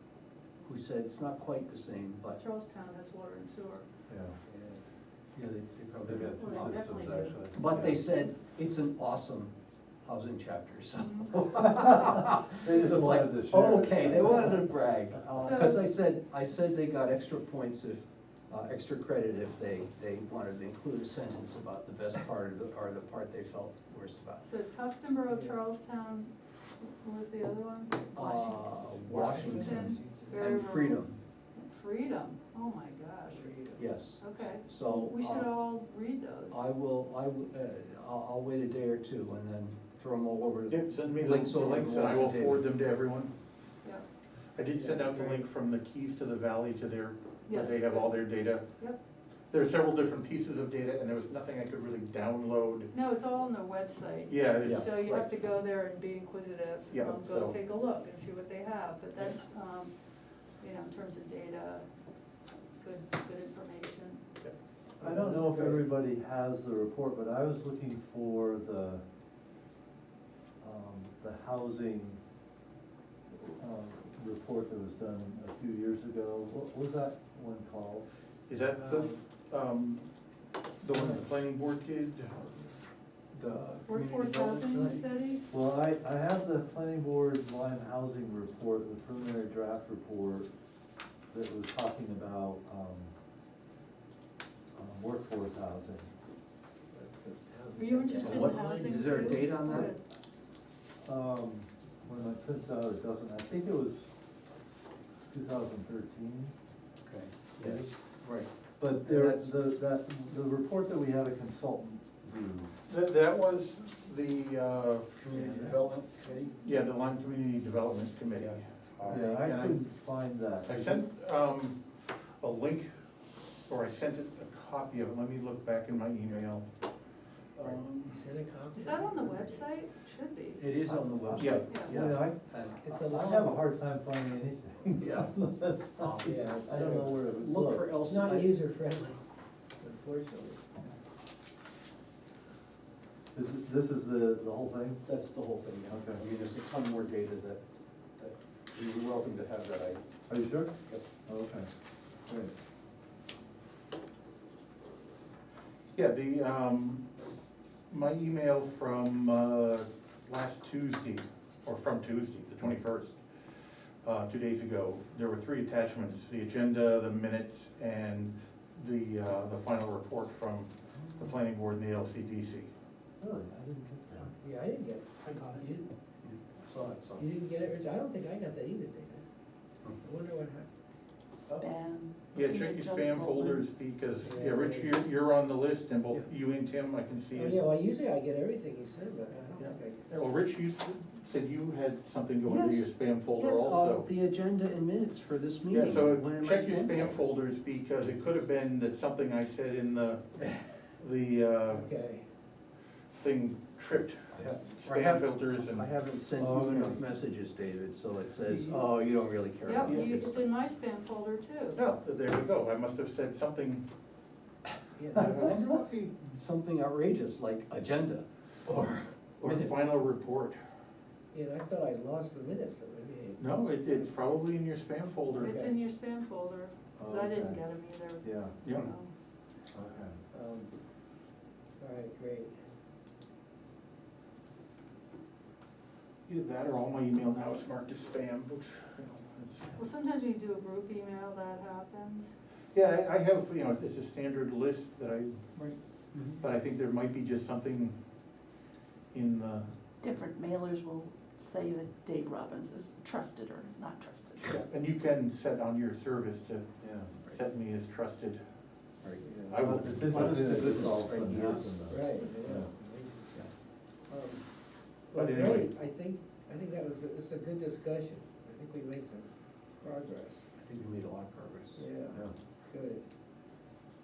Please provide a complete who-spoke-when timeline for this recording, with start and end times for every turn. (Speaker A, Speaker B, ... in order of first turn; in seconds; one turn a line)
Speaker A: 0.6-2.4
Speaker B: 2.3-3.8
Speaker C: 4.1-4.3
Speaker D: 4.5-4.8
Speaker A: 5.3-6.8
Speaker C: 6.0-8.0
Speaker B: 6.4-7.8
Speaker A: 7.5-9.5
Speaker A: 10.0-24.4
Speaker B: 11.1-11.3
Speaker C: 11.6-14.6
Speaker B: 15.4-15.8
Speaker B: 24.4-28.8
Speaker D: 25.3-25.6
Speaker A: 28.1-31.2
Speaker D: 29.1-30.6
Speaker B: 29.4-33.5
Speaker D: 33.3-33.8
Speaker A: 33.8-35.5
Speaker B: 34.2-36.6
Speaker A: 36.5-42.6
Speaker E: 40.7-43.3
Speaker E: 44.5-48.6
Speaker D: 44.7-45.5
Speaker B: 47.5-48.1
Speaker E: 49.5-52.9
Speaker B: 52.9-59.9
Speaker E: 54.3-55.2
Speaker A: 54.6-55.2
Speaker E: 56.9-57.5
Speaker B: 60.6-61.9
Speaker B: 62.8-64.2
Speaker D: 65.0-65.9
Speaker C: 65.0-69.0
Speaker C: 70.6-72.2
Speaker C: 73.4-78.0
Speaker E: 78.5-80.1
Speaker E: 80.8-82.6
Speaker A: 83.3-85.0
Speaker B: 83.9-85.4
Speaker C: 85.5-90.5
Speaker C: 91.3-93.1
Speaker C: 94.7-96.1
Speaker D: 96.9-99.5
Speaker B: 97.8-100.0
Speaker A: 98.2-99.9
Speaker C: 101.0-104.1
Speaker C: 105.3-106.5
Speaker A: 107.0-109.5
Speaker C: 107.6-107.9
Speaker C: 108.8-112.7
Speaker E: 112.9-115.6
Speaker A: 115.2-116.6
Speaker C: 115.4-115.8
Speaker E: 116.6-119.9
Speaker A: 118.3-119.4
Speaker C: 119.1-121.0
Speaker E: 120.7-121.8
Speaker E: 122.4-122.9
Speaker E: 123.7-126.7
Speaker D: 127.6-129.7
Speaker E: 127.6-128.1
Speaker B: 128.7-130.6
Speaker A: 130.6-133.1
Speaker C: 130.9-132.4
Speaker E: 131.4-131.7
Speaker B: 131.7-131.9
Speaker D: 132.8-133.6
Speaker C: 133.1-137.9
Speaker A: 135.0-138.6
Speaker D: 136.2-137.2
Speaker D: 138.0-139.2
Speaker D: 139.8-140.6
Speaker C: 143.3-145.0
Speaker A: 145.0-147.6
Speaker C: 145.9-146.2
Speaker A: 148.2-150.0
Speaker C: 150.3-151.7
Speaker C: 152.3-152.5
Speaker E: 155.9-157.1
Speaker E: 157.9-163.2
Speaker E: 164.0-172.7
Speaker C: 173.2-174.3
Speaker D: 174.4-175.9
Speaker E: 175.2-175.6
Speaker A: 176.2-177.3
Speaker D: 177.2-179.2
Speaker D: 180.0-180.7
Speaker F: 181.5-183.7
Speaker E: 182.3-187.6
Speaker D: 184.2-185.0
Speaker D: 187.3-190.1
Speaker E: 189.6-194.1
Speaker A: 192.4-197.2
Speaker E: 195.7-201.9
Speaker D: 201.7-202.2
Speaker E: 203.2-205.9
Speaker A: 204.3-210.4
Speaker C: 206.4-206.9
Speaker E: 208.5-208.8
Speaker B: 209.6-211.8
Speaker E: 209.8-210.3
Speaker E: 211.8-213.8
Speaker D: 215.0-215.5
Speaker E: 215.1-216.2
Speaker A: 215.1-219.9
Speaker E: 219.4-220.6
Speaker D: 221.3-224.1
Speaker E: 223.4-225.5
Speaker B: 225.3-229.1
Speaker D: 225.4-225.8
Speaker C: 227.0-227.6
Speaker C: 228.2-228.6
Speaker C: 229.7-230.2
Speaker D: 230.3-230.7
Speaker D: 231.8-232.6
Speaker E: 236.3-239.8
Speaker B: 239.8-242.3
Speaker E: 242.7-245.8
Speaker A: 246.1-246.4
Speaker E: 246.4-247.9
Speaker E: 249.1-249.7
Speaker F: 250.0-254.6
Speaker E: 254.5-258.4
Speaker C: 256.8-257.1
Speaker A: 259.0-261.8
Speaker C: 259.4-262.7
Speaker E: 259.5-260.3
Speaker D: 261.9-263.5
Speaker D: 264.1-264.4
Speaker D: 265.1-269.3
Speaker E: 265.1-265.7
Speaker D: 269.8-270.4
Speaker A: 270.6-271.8
Speaker D: 271.7-273.0